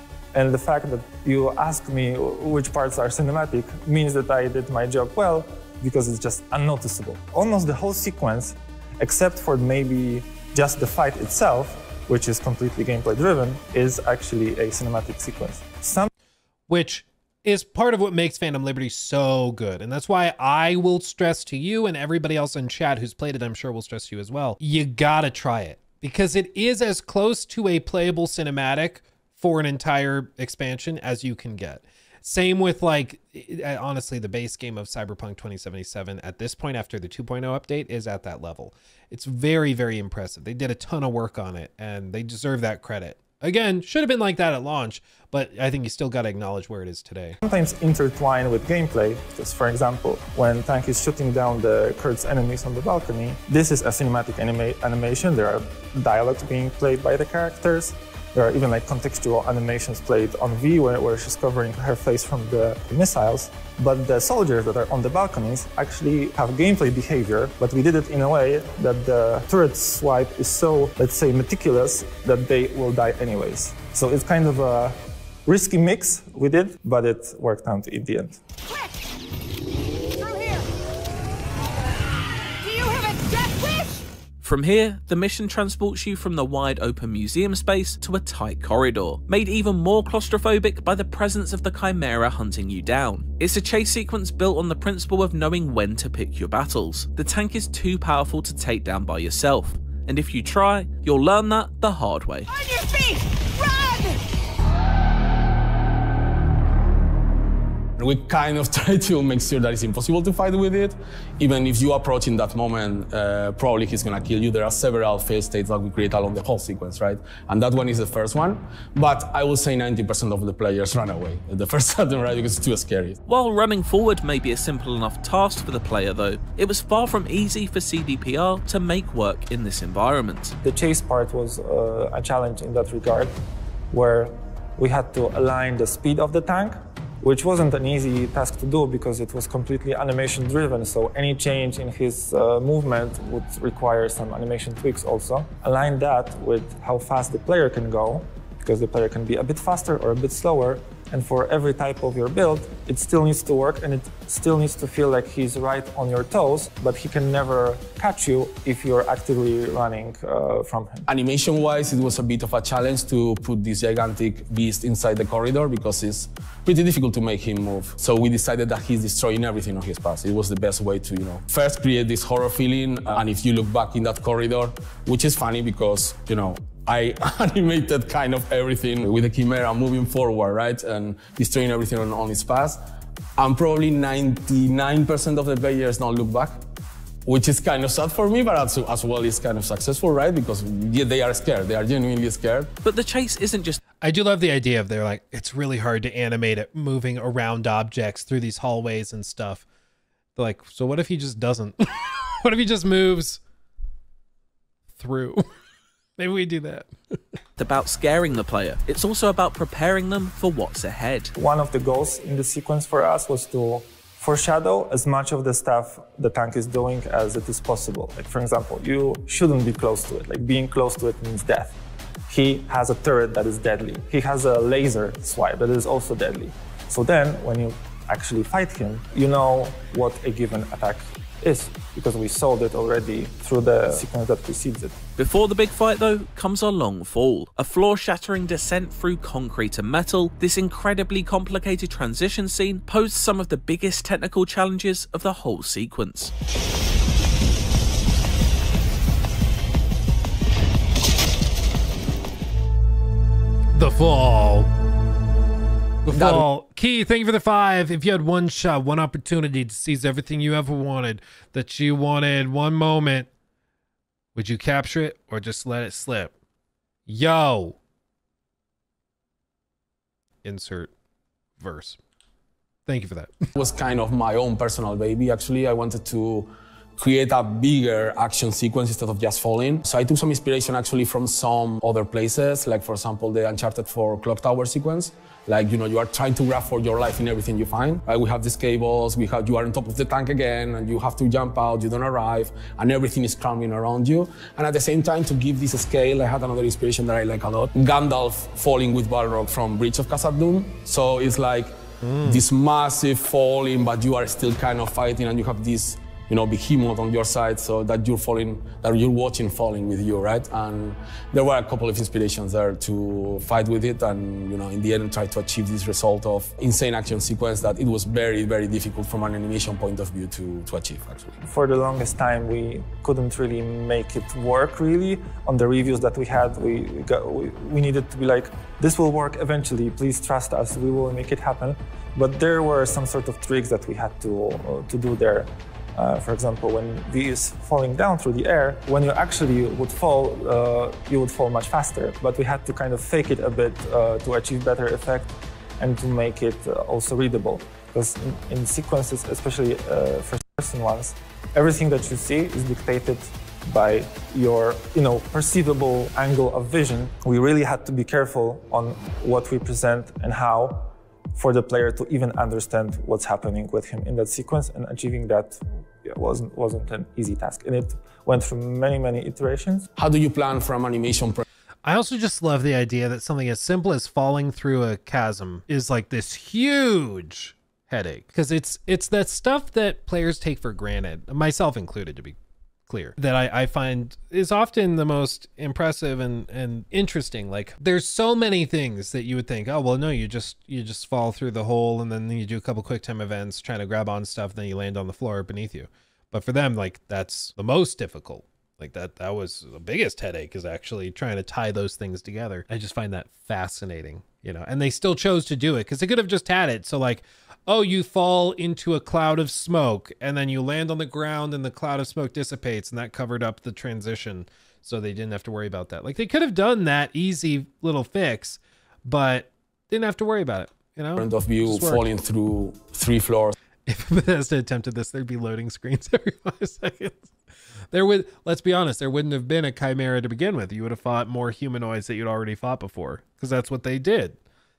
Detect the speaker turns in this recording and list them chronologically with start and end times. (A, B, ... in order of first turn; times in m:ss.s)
0:00.3-0:16.1 A
0:16.7-0:47.4 B
0:47.4-1:18.4 A
1:20.2-1:20.7 C
1:22.6-1:24.0 C
1:24.4-1:42.5 D
1:42.5-1:44.2 C
1:48.0-2:03.2 E
2:03.3-2:10.6 D
2:10.6-2:13.3 A
2:13.9-2:41.1 A
2:41.1-3:02.8 E
3:03.4-3:06.6 E
3:07.3-3:12.7 E
3:12.8-3:13.8 D
3:14.0-3:19.6 B
3:20.4-3:23.4 B
3:25.0-3:25.4 B
3:26.2-3:27.2 B
3:27.6-3:31.3 D
3:31.4-3:41.8 A
3:42.3-3:54.9 A
3:55.2-4:06.3 D
4:13.7-4:14.7 B
4:16.1-4:23.3 B
4:16.1-4:16.5 E
4:24.4-4:26.3 B
4:27.1-4:27.8 B
4:30.4-4:30.9 B
4:31.6-4:32.0 B
4:32.9-4:33.3 B
4:33.6-5:21.4 E
5:02.0-5:02.4 B
5:21.4-6:09.9 A
6:10.0-6:11.4 E
6:11.8-6:22.4 B
6:22.9-7:02.1 B
7:01.2-7:03.6 E
7:03.9-7:07.3 B
7:07.9-7:14.4 B